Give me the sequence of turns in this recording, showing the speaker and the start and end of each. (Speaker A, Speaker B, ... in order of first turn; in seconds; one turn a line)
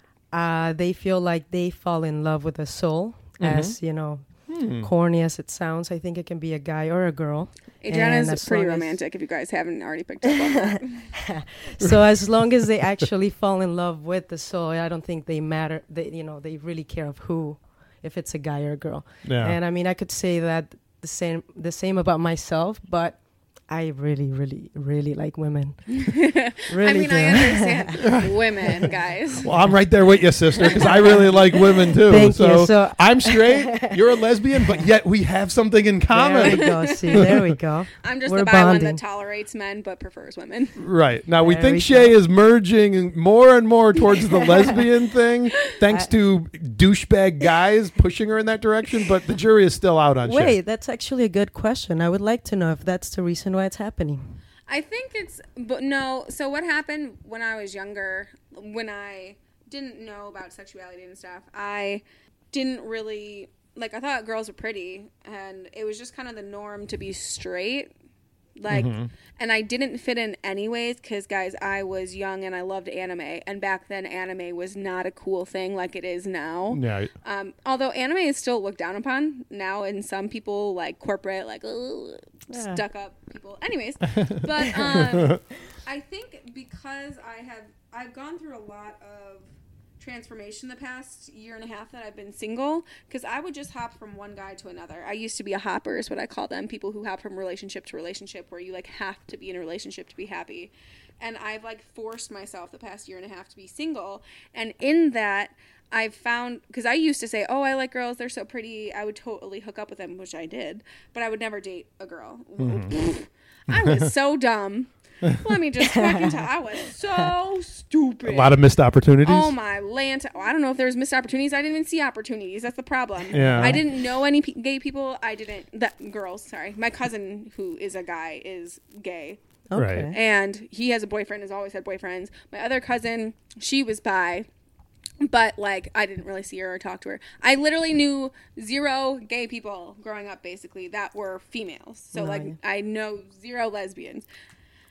Speaker A: 0.3-4.3
Speaker B: 3.4-3.7
Speaker B: 4.5-4.9
Speaker A: 4.8-9.0
Speaker C: 7.8-11.1
Speaker A: 10.2-26.1
Speaker B: 19.2-19.6
Speaker C: 26.0-29.5
Speaker A: 26.7-28.0
Speaker B: 28.0-28.3
Speaker B: 29.4-37.4
Speaker A: 30.7-34.0
Speaker A: 34.6-34.9
Speaker A: 36.1-39.0
Speaker C: 36.4-37.2
Speaker C: 38.0-40.7
Speaker B: 40.8-50.6
Speaker A: 41.4-42.1
Speaker A: 44.4-44.8
Speaker A: 50.2-54.4
Speaker C: 54.7-67.9
Speaker C: 68.6-118.5
Speaker B: 68.7-69.1
Speaker B: 76.7-77.1
Speaker A: 82.5-82.8
Speaker B: 85.1-85.4
Speaker B: 112.6-112.9
Speaker B: 113.7-114.1
Speaker A: 115.8-116.4
Speaker B: 118.2-119.5
Speaker C: 119.2-129.4
Speaker B: 123.3-123.8
Speaker A: 123.4-123.8
Speaker A: 129.7-130.2
Speaker B: 129.7-130.1
Speaker C: 130.1-134.5
Speaker C: 135.2-144.3
Speaker A: 142.1-142.6